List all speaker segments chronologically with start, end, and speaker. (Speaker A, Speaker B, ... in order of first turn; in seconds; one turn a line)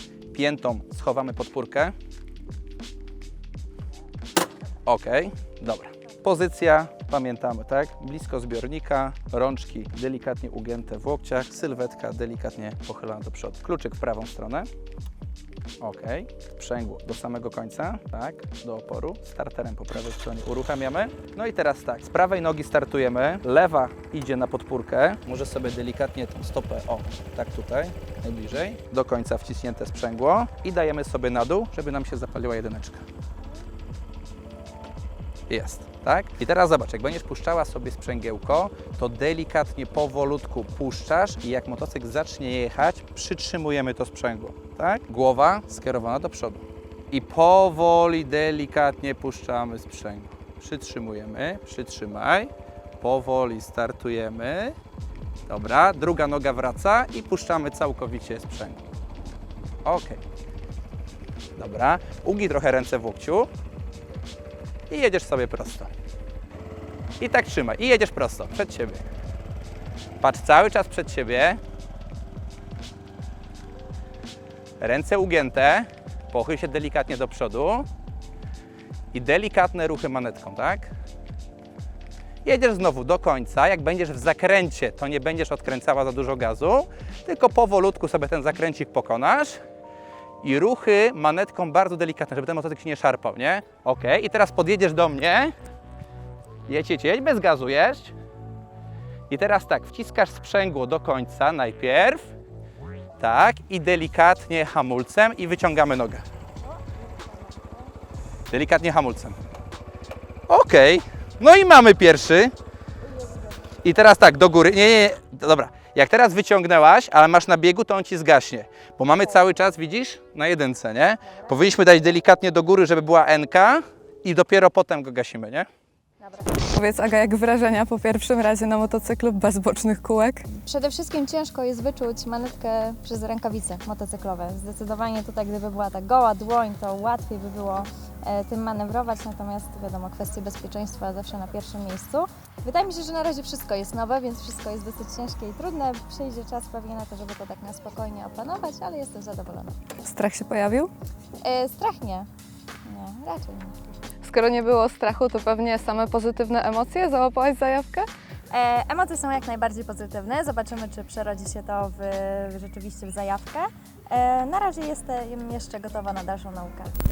Speaker A: 0.3-1.9
Speaker A: 4.9-14.7
Speaker A: 15.8-33.0
Speaker A: 35.5-54.8
Speaker A: 55.5-58.8
Speaker A: 59.9-60.2
Speaker A: 61.5-63.5
Speaker A: 64.9-65.9
Speaker A: 67.2-69.0
Speaker A: 70.2-71.6
Speaker A: 74.8-77.9
Speaker A: 79.1-80.9
Speaker A: 82.5-89.6
Speaker A: 90.4-95.5
Speaker A: 96.7-98.1
Speaker A: 99.3-102.3
Speaker A: 103.2-106.2
Speaker B: 107.3-107.8
Speaker A: 108.5-109.4
Speaker A: 110.5-112.5
Speaker A: 113.8-125.7
Speaker C: 126.6-130.5
Speaker B: 130.6-149.8
Speaker C: 150.0-150.9
Speaker B: 151.4-152.3
Speaker B: 152.8-153.7
Speaker C: 154.2-158.1
Speaker B: 158.5-166.9